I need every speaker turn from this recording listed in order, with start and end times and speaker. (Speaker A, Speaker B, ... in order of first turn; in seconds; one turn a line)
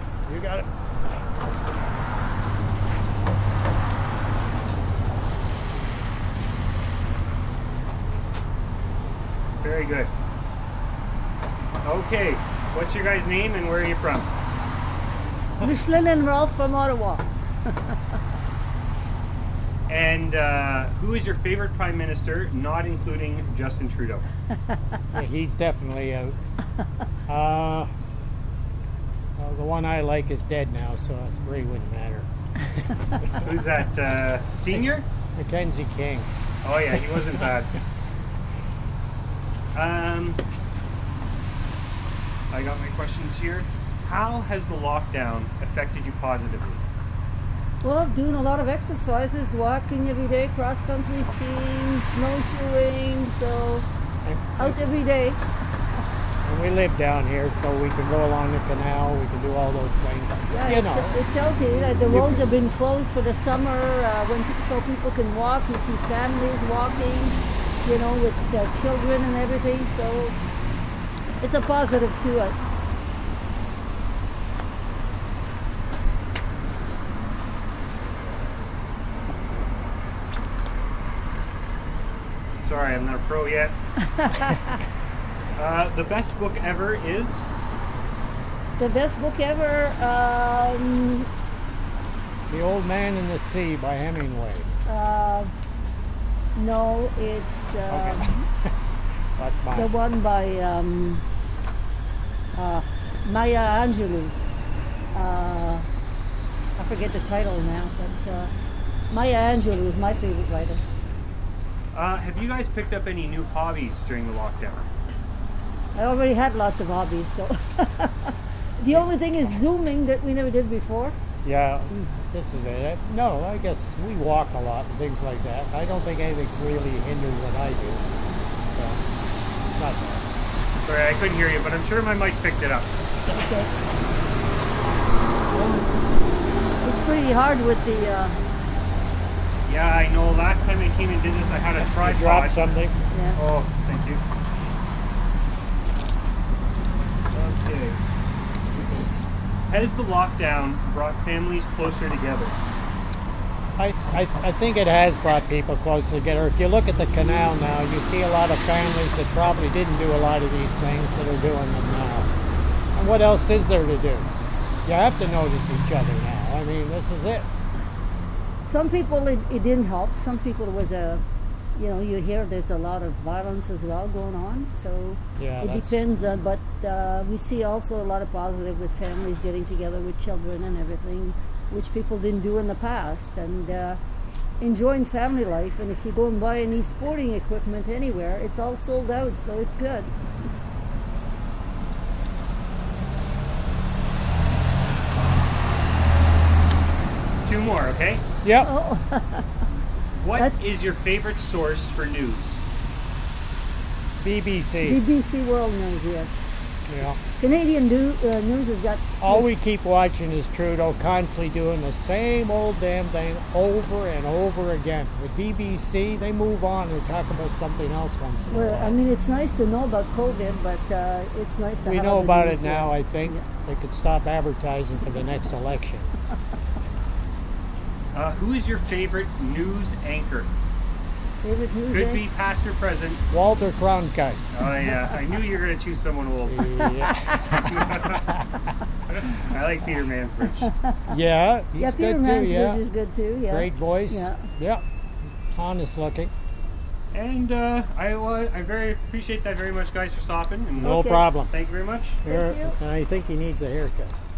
Speaker A: 0.2-0.7
Speaker B: 9.6-10.1
Speaker B: 11.8-14.3
Speaker C: 15.6-17.9
Speaker B: 19.9-24.2
Speaker A: 25.1-26.4
Speaker A: 27.3-27.9
Speaker A: 29.4-32.9
Speaker B: 33.3-35.0
Speaker A: 35.4-36.3
Speaker B: 36.6-37.7
Speaker A: 37.0-37.6
Speaker B: 39.7-40.4
Speaker B: 42.5-46.8
Speaker C: 47.8-53.9
Speaker A: 54.2-54.9
Speaker C: 54.6-55.4
Speaker A: 56.5-61.2
Speaker C: 60.5-70.4
Speaker A: 62.0-62.5
Speaker C: 71.4-72.6
Speaker B: 82.6-83.7
Speaker C: 84.1-84.7
Speaker B: 85.5-87.5
Speaker C: 88.8-91.3
Speaker A: 92.5-94.7
Speaker C: 94.8-95.5
Speaker C: 96.5-98.4
Speaker A: 97.9-98.7
Speaker A: 99.4-99.9
Speaker C: 99.7-101.2
Speaker C: 102.5-104.3
Speaker C: 105.1-105.8
Speaker C: 106.8-108.5
Speaker C: 109.1-110.8
Speaker B: 111.9-114.9
Speaker C: 115.9-121.1
Speaker A: 121.4-128.0
Speaker A: 128.7-129.0
Speaker A: 129.7-130.3
Speaker B: 130.8-132.9
Speaker C: 133.3-133.7
Speaker C: 136.8-138.4
Speaker B: 139.7-142.6
Speaker A: 141.8-142.9
Speaker C: 143.1-143.4
Speaker B: 143.3-144.2
Speaker B: 147.3-148.0
Speaker B: 149.7-152.6
Speaker A: 153.8-162.3
Speaker A: 162.9-164.3
Speaker A: 164.8-167.5
Speaker C: 168.6-171.2
Speaker C: 171.8-184.0
Speaker A: 175.4-176.0
Speaker C: 184.6-190.1
Speaker B: 197.4-198.2
Speaker A: 198.4-198.7
Speaker C: 198.6-199.5
Speaker B: 200.2-202.6
Speaker A: 204.2-205.0
Speaker C: 204.8-206.5
Speaker A: 206.9-207.2
Speaker C: 207.4-209.5
Speaker A: 209.2-219.0
Speaker C: 218.5-223.4
Speaker A: 221.8-226.1
Speaker B: 228.1-230.5
Speaker C: 231.4-232.2
Speaker B: 231.9-233.2
Speaker A: 233.3-234.4
Speaker B: 234.5-236.7
Speaker A: 236.5-238.4
Speaker C: 236.8-237.5
Speaker B: 237.6-238.3
Speaker B: 239.1-240.7
Speaker C: 240.6-241.2
Speaker A: 241.1-242.8
Speaker C: 241.8-244.4
Speaker A: 243.4-244.8
Speaker A: 245.5-246.3
Speaker B: 247.1-252.2
Speaker A: 250.8-251.5
Speaker C: 250.8-251.3
Speaker A: 252.2-254.1
Speaker C: 252.2-252.8